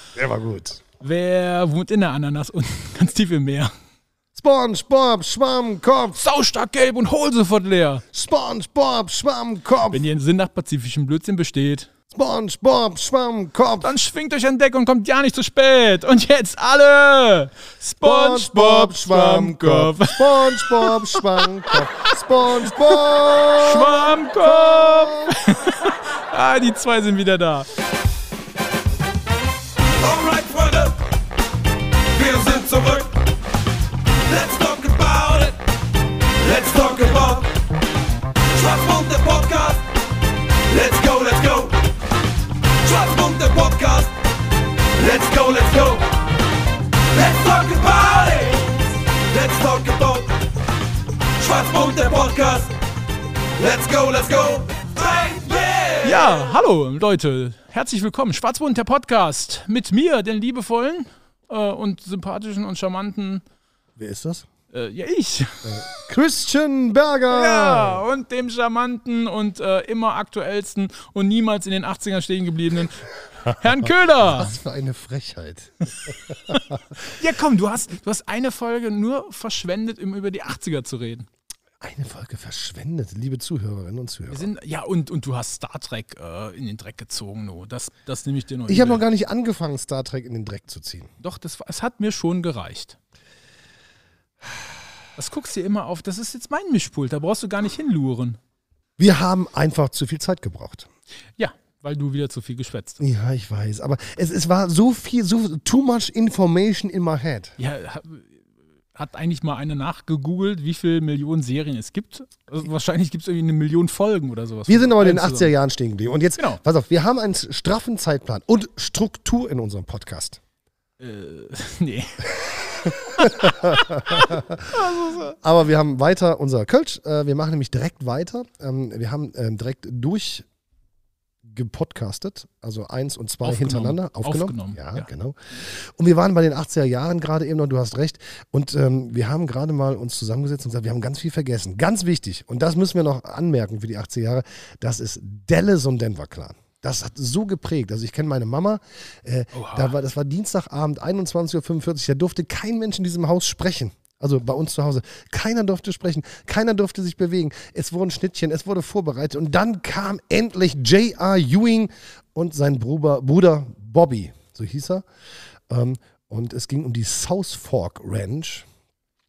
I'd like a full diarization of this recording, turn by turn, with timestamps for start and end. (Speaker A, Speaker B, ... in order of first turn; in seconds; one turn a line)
Speaker A: 0.1-0.8
Speaker B: 1.0-3.7
Speaker A: 4.3-6.2
Speaker B: 6.1-8.0
Speaker A: 8.1-10.1
Speaker B: 9.9-11.9
Speaker A: 12.1-13.9
Speaker B: 13.8-27.7
Speaker A: 18.0-25.4
Speaker C: 30.0-31.0
Speaker C: 32.1-33.2
Speaker C: 34.3-35.6
Speaker C: 36.3-37.6
Speaker C: 38.5-39.9
Speaker C: 40.7-41.9
Speaker C: 42.8-44.3
Speaker C: 44.8-46.2
Speaker C: 47.1-50.4
Speaker C: 51.4-52.8
Speaker C: 53.6-56.3
Speaker B: 56.0-63.4
Speaker A: 64.0-64.5
Speaker B: 64.7-65.9
Speaker A: 65.6-68.0
Speaker B: 67.3-74.5
Speaker A: 74.2-76.8
Speaker B: 76.1-81.3
Speaker A: 81.8-84.5
Speaker B: 84.3-89.0
Speaker A: 88.7-91.1
Speaker B: 91.2-93.0
Speaker B: 95.2-98.4
Speaker A: 99.0-100.9
Speaker B: 101.4-103.0
Speaker A: 103.0-107.6
Speaker B: 107.6-115.5
Speaker A: 114.7-120.4
Speaker B: 121.0-125.4
Speaker A: 122.8-130.4
Speaker A: 131.4-165.1
Speaker B: 133.4-135.1
Speaker B: 149.5-149.9
Speaker A: 165.7-168.7